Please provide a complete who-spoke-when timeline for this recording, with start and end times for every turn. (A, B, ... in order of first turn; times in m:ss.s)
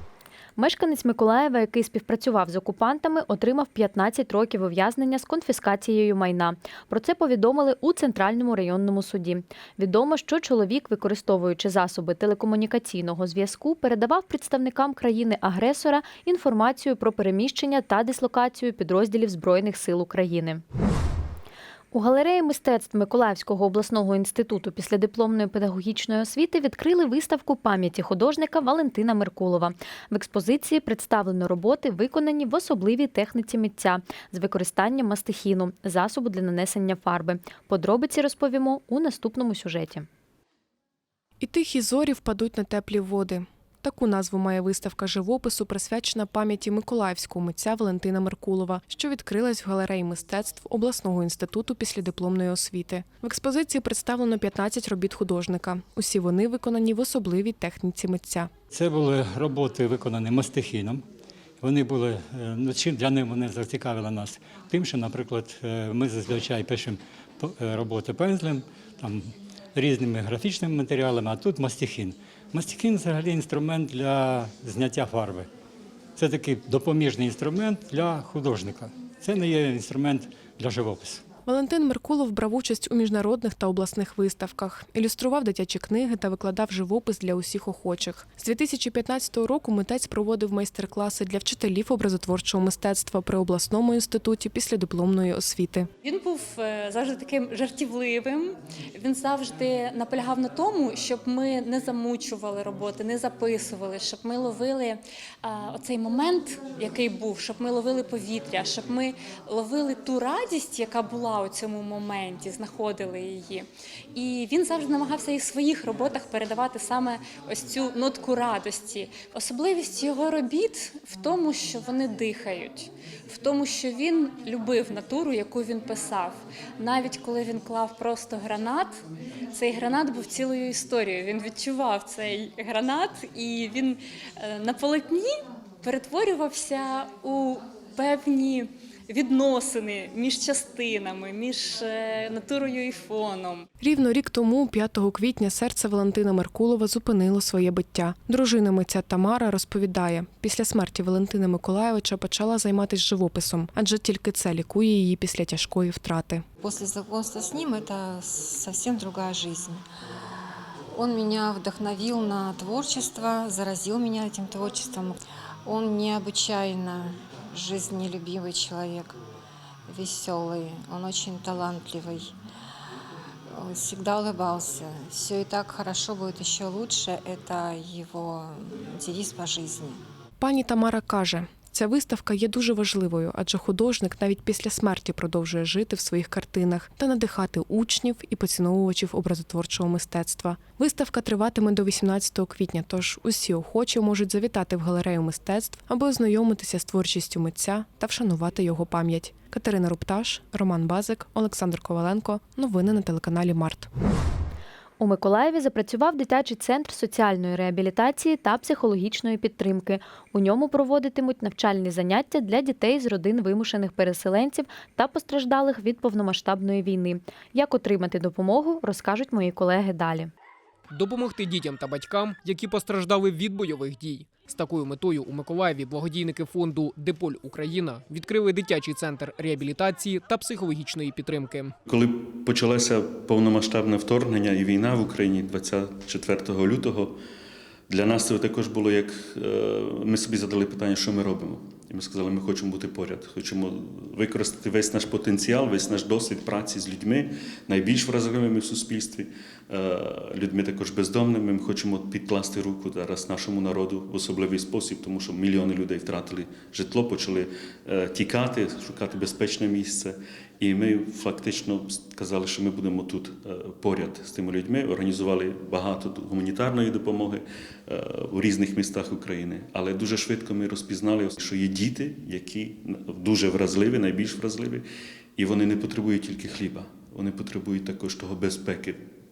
0:00.6-0:20.6 A
0:21.9-0:40.1 A
0:41.4-0:58.5 B
0:58.7-1:01.0 C
1:01.6-1:15.5 C
1:16.2-1:21.2 C
1:21.5-1:35.9 B
1:36.0-2:09.0 D
2:09.5-2:23.7 D
2:23.8-2:36.4 B
2:36.6-2:39.8 E
2:40.9-2:49.1 E
2:49.9-2:52.3 E
2:53.5-3:00.0 E
3:00.4-3:23.9 B
3:25.0-3:40.3 A
3:40.9-3:51.8 F
3:51.9-3:57.1 G
3:57.9-4:34.8 G
4:35.4-4:39.0 G